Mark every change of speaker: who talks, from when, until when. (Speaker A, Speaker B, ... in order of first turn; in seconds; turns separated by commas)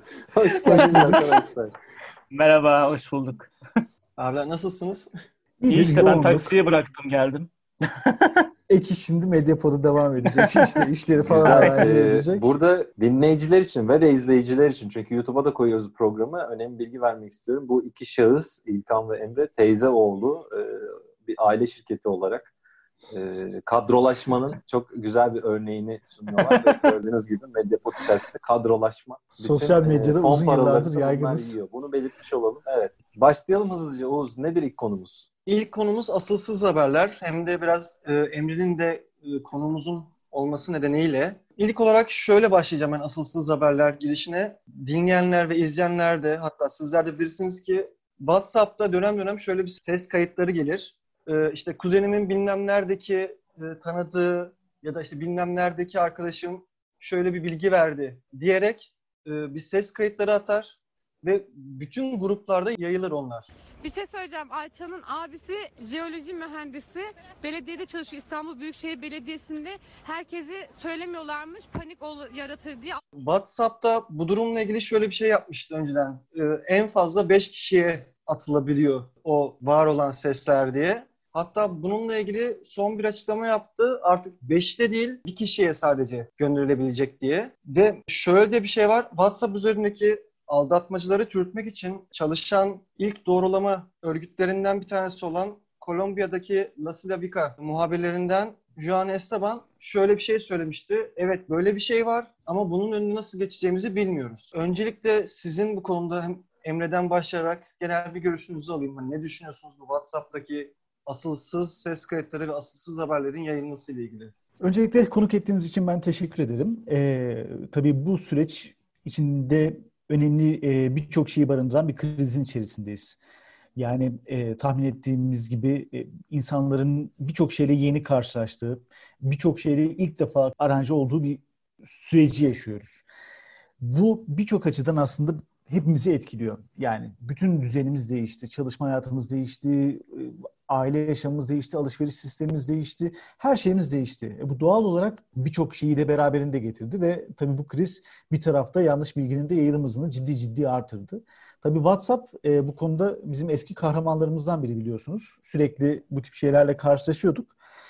Speaker A: 0.3-1.7, Speaker B: 0.6-1.2, Speaker C: 0.7-1.2, Speaker C: 2.3-3.5, Speaker D: 4.2-5.1, Speaker B: 5.6-6.5, Speaker C: 5.7-8.4, Speaker B: 8.7-12.4, Speaker C: 10.3-10.8, Speaker A: 11.2-22.5, Speaker C: 11.5-11.8, Speaker A: 23.1-35.3, Speaker B: 29.4-31.6, Speaker D: 35.5-63.5, Speaker E: 63.8-73.0, Speaker D: 73.2-114.3, Speaker B: 114.6-123.2, Speaker B: 123.8-133.0, Speaker B: 133.8-157.5